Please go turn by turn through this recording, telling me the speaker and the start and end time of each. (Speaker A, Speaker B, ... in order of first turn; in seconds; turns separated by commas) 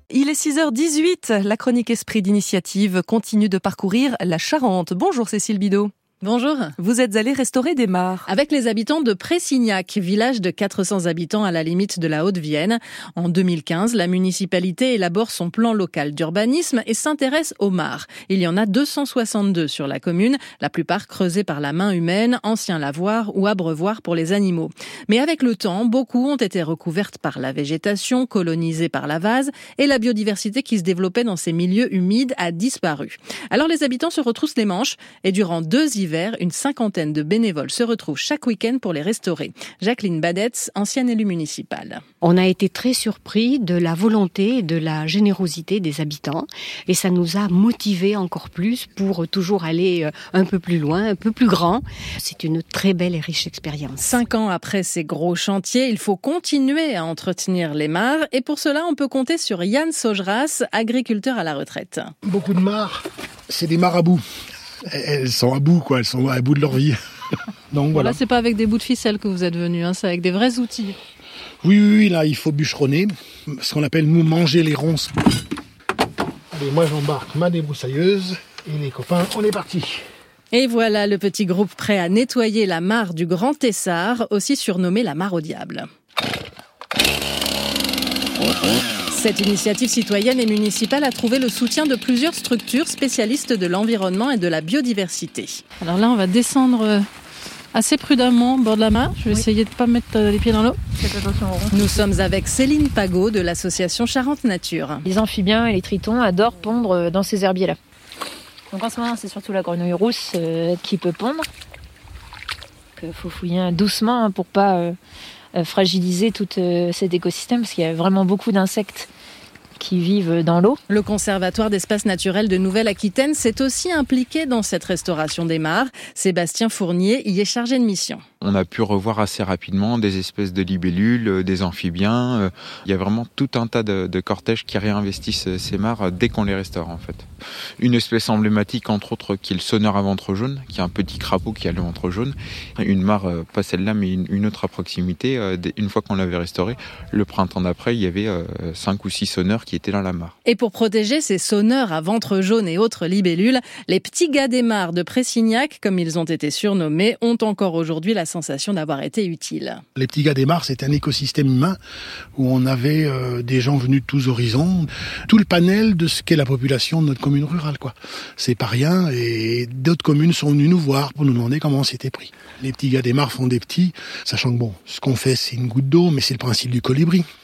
Speaker A: 0.1-5.9, Speaker B: 6.2-6.8, Speaker A: 6.8-8.2, Speaker B: 8.3-42.0, Speaker C: 42.2-54.2, Speaker B: 54.0-62.1, Speaker D: 62.2-64.2, Speaker D: 64.9-67.0, Speaker D: 67.7-68.2, Speaker B: 67.9-70.9, Speaker D: 71.6-75.1, Speaker D: 76.5-80.0, Speaker B: 80.5-85.8, Speaker B: 89.1-97.0, Speaker B: 97.7-100.8, Speaker E: 101.0-102.0, Speaker B: 101.7-105.0, Speaker E: 105.0-107.8, Speaker E: 108.7-111.5, Speaker E: 113.0-115.0, Speaker E: 115.5-119.1, Speaker E: 119.8-120.8, Speaker B: 120.9-128.2, Speaker F: 128.4-137.3, Speaker F: 137.8-150.3, Speaker B: 150.4-159.8, Speaker D: 159.9-161.8, Speaker D: 162.3-177.2